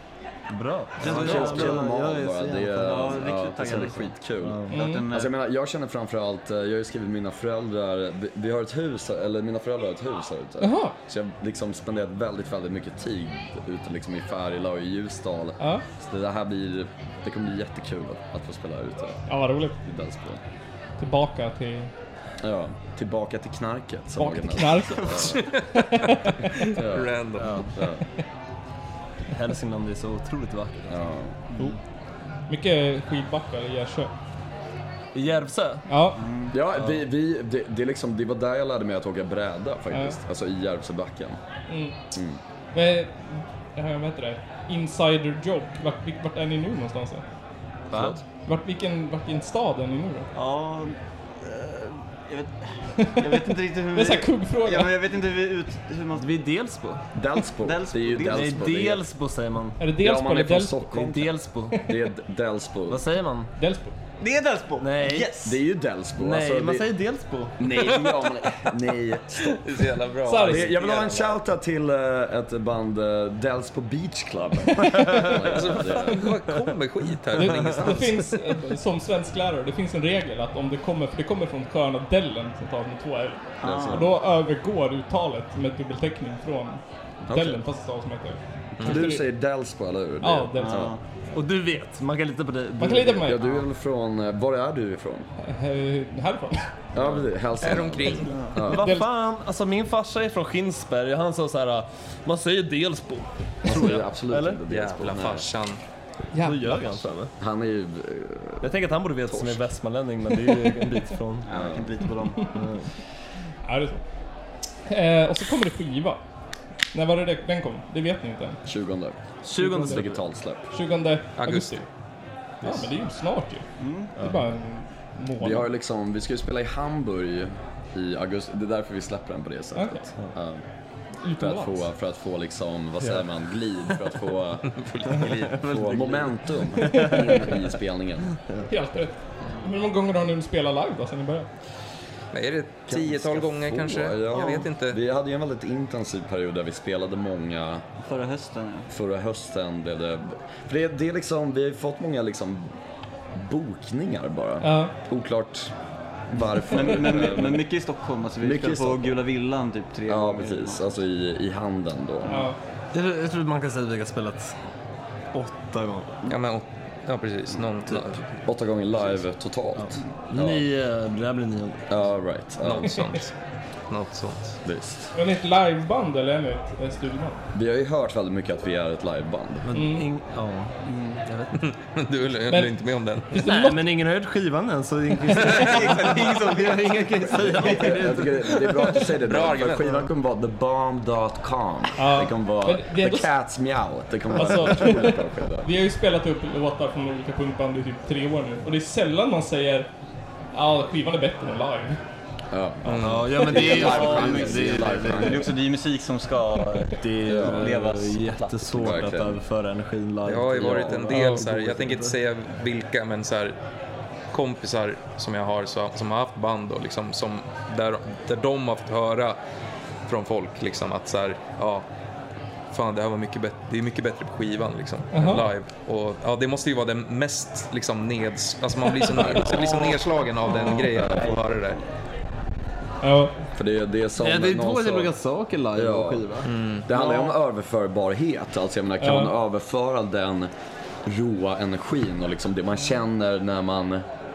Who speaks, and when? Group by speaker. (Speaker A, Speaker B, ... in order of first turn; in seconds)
Speaker A: 0.5-2.6, 4.4-4.8, 27.4-27.7, 29.3-31.0, 35.1-35.9, 47.9-48.2, 56.1-57.0, 58.3-59.8, 60.9-61.8, 62.9-63.5, 64.8-65.3, 66.2-67.6, 91.3-93.5, 98.6-104.6, 106.4-107.3, 108.6-111.5, 112.5-112.9, 119.4-120.2, 122.6-122.9, 135.5-137.2, 162.9-164.5, 165.3-166.2, 169.8-171.8, 179.6-180.7, 181.2-181.6, 183.4-188.9, 203.0-205.4, 207.0-212.1, 234.2-236.5
Speaker B: 1.0-4.1, 4.7-5.3, 36.1-36.6, 50.3-56.4, 57.6-58.7, 64.2-65.6, 83.6-84.1, 90.6-91.0, 98.3-98.6, 111.4-112.6, 123.8-124.1, 148.0-148.9, 156.6-160.8, 180.8-181.2, 185.3-188.0, 203.4-208.9, 229.4-231.8, 236.9-237.3
Speaker C: 1.0-19.2, 19.8-20.4, 22.4-25.4, 26.8-28.0, 30.9-31.3, 36.5-41.4, 42.1-42.4, 47.9-48.2, 57.1-59.0, 60.0-63.0, 65.4-66.9, 67.6-69.8, 70.4-76.3, 83.6-84.2, 87.2-87.6, 88.8-91.0, 93.2-95.3, 96.9-98.9, 103.6-105.5, 107.4-108.7, 109.3-109.6, 111.5-111.9, 118.6-119.2, 119.8-120.7, 125.4-130.6, 131.4-134.7, 135.5-138.3, 142.9-147.8, 148.9-152.7, 153.3-155.7, 156.3-157.6, 158.4-159.1, 160.1-162.4, 168.4-170.7, 171.9-173.1, 174.6-175.1, 177.5-179.7, 187.6-195.7, 202.5-205.5, 207.2-207.7, 208.7-209.4, 230.4-231.3, 233.6-235.1, 235.7-236.3, 236.8-240.5, 241.0-244.0
Speaker D: 4.7-5.0, 10.6-10.9, 19.3-19.8, 21.0-21.9, 24.1-26.7, 32.5-34.1, 35.9-36.2, 39.9-40.2, 41.7-42.0, 42.7-47.2, 48.5-50.3, 53.0-55.0, 59.8-61.0, 63.6-63.9, 70.2-70.7, 77.4-89.2, 90.2-90.9, 92.8-93.4, 95.4-96.7, 97.9-99.1, 106.3-107.0, 113.6-114.0, 114.9-116.2, 116.9-118.6, 119.6-120.0, 120.7-121.8, 122.6-123.6, 124.2-125.7, 129.7-130.0, 131.2-131.9, 136.8-137.3, 138.7-141.5, 154.6-154.9, 162.2-162.6, 175.1-177.4, 179.7-180.1, 182.5-182.7, 183.3-183.8, 192.0-193.3, 194.3-199.9, 200.5-202.0, 211.1-211.4, 225.1-225.5, 233.0-233.3, 239.0-239.3
Speaker E: 25.3-27.6, 69.5-71.3, 75.5-78.4, 88.8-89.0, 97.6-98.4, 104.7-105.8, 121.4-121.8, 134.7-135.6, 142.3-145.0, 166.3-168.2, 172.6-173.3, 173.9-174.6, 181.6-183.3, 189.2-189.9, 202.8-203.4, 210.2-213.6, 214.3-219.4, 220.1-221.9, 222.7-231.8, 236.4-236.9